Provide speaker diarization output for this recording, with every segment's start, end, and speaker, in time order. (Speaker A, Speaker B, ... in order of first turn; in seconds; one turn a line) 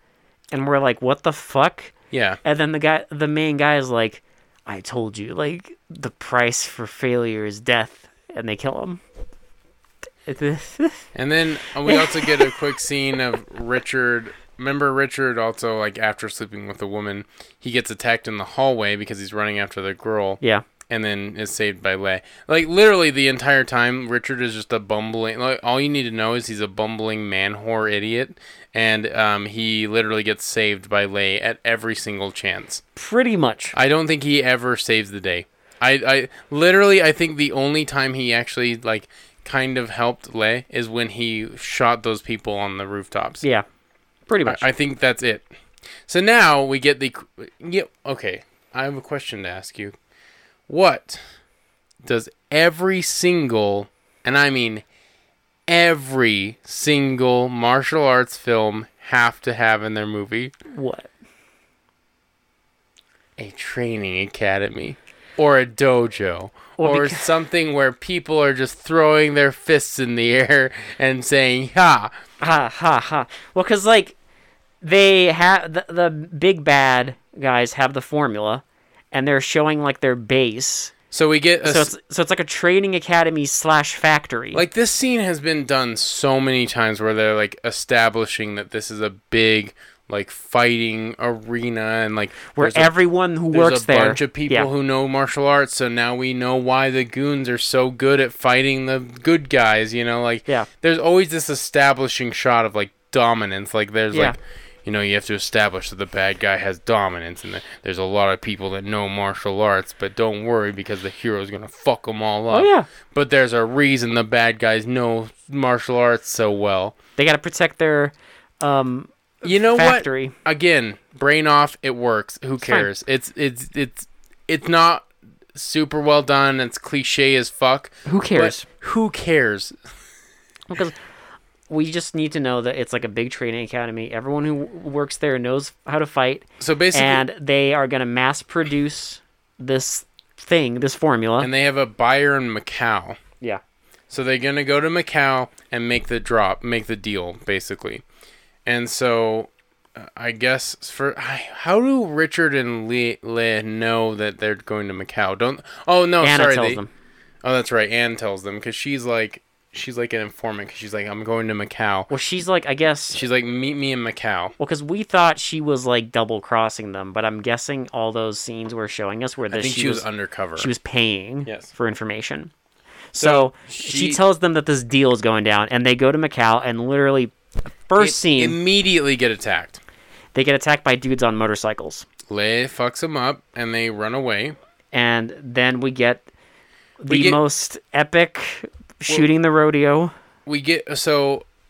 Speaker A: 0.5-1.9
Speaker B: 2.1-2.4
Speaker A: 2.4-9.0
Speaker A: 10.2-11.1
Speaker B: 11.1-32.8
Speaker A: 11.8-12.6
Speaker A: 20.4-20.6
Speaker A: 33.0-33.7
Speaker B: 33.7-43.4
Speaker A: 44.3-44.6
Speaker B: 44.5-45.5
Speaker B: 46.1-49.9
Speaker B: 50.7-51.2
Speaker B: 52.0-54.8
Speaker B: 55.7-60.5
Speaker A: 60.7-61.1
Speaker B: 63.4-72.1
Speaker A: 66.8-67.3
Speaker A: 72.4-74.2
Speaker A: 74.8-80.9
Speaker B: 81.1-81.9
Speaker A: 81.6-84.6
Speaker B: 84.5-92.9
Speaker A: 92.5-94.7
Speaker B: 93.5-116.9
Speaker A: 104.1-104.4
Speaker A: 112.5-112.9
Speaker A: 117.2-120.3
Speaker B: 119.4-129.7
Speaker A: 122.6-122.9
Speaker A: 128.1-128.7
Speaker A: 130.7-130.9
Speaker A: 131.7-141.5
Speaker B: 136.6-137.2
Speaker B: 141.4-143.2
Speaker B: 144.1-148.0
Speaker B: 148.6-156.8
Speaker A: 156.2-156.9
Speaker B: 157.4-162.1
Speaker A: 162.1-163.2
Speaker B: 163.1-164.5
Speaker A: 164.6-170.0
Speaker B: 169.5-170.7
Speaker A: 170.6-172.5
Speaker A: 173.1-177.3
Speaker B: 173.2-174.2
Speaker A: 177.9-178.6
Speaker B: 178.0-179.8
Speaker A: 180.3-182.1
Speaker B: 182.3-184.6
Speaker A: 184.9-186.2
Speaker A: 187.0-190.1
Speaker B: 187.1-187.4
Speaker B: 190.4-191.4